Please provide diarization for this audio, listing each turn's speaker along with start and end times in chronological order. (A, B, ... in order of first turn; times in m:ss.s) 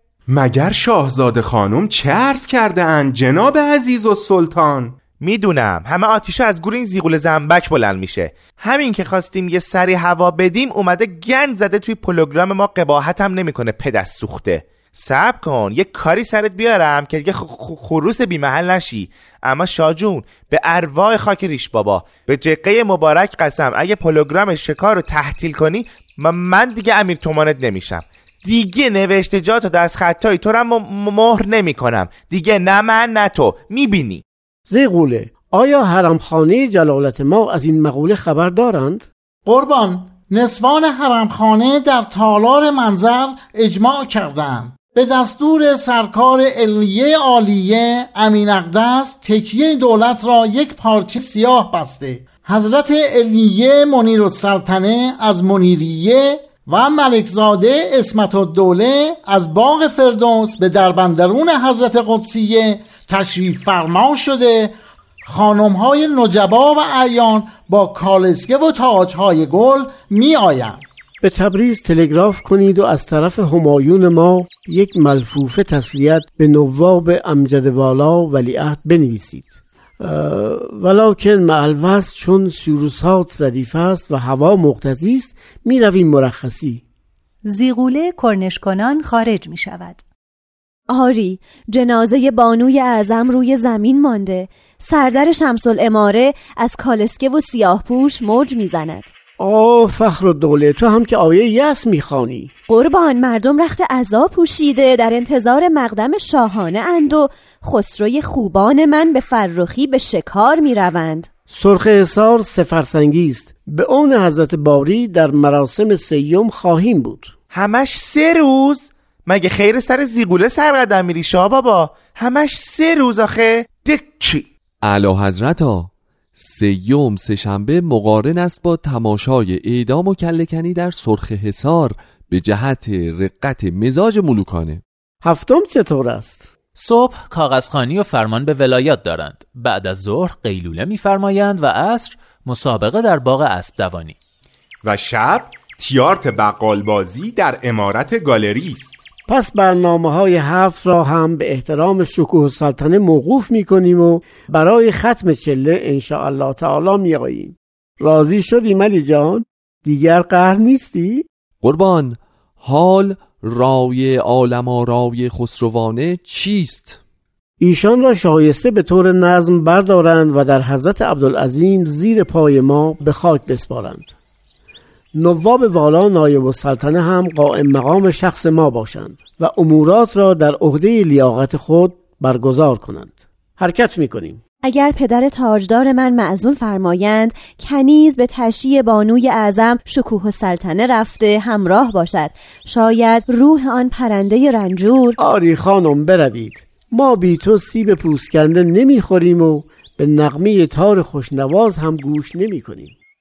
0:00.3-0:05.0 A
0:05.2-0:34.2 B
0:34.7-0:39.1 C
0:39.5-1:10.8 D
1:11.2-1:26.8 C
1:27.5-1:30.0 E
1:30.9-1:39.1 F
1:39.4-1:42.5 C
1:42.7-1:51.3 F
1:51.5-1:57.3 C
1:57.5-2:04.5 B
2:04.8-2:14.8 G
2:15.2-2:16.5 C
2:16.8-2:24.2 H
2:24.8-2:29.0 A
2:29.3-2:41.3 C
2:41.6-2:47.0 G
2:47.6-2:54.1 C
2:55.1-3:04.4 C
3:04.6-3:15.2 F
3:15.2-3:23.0 C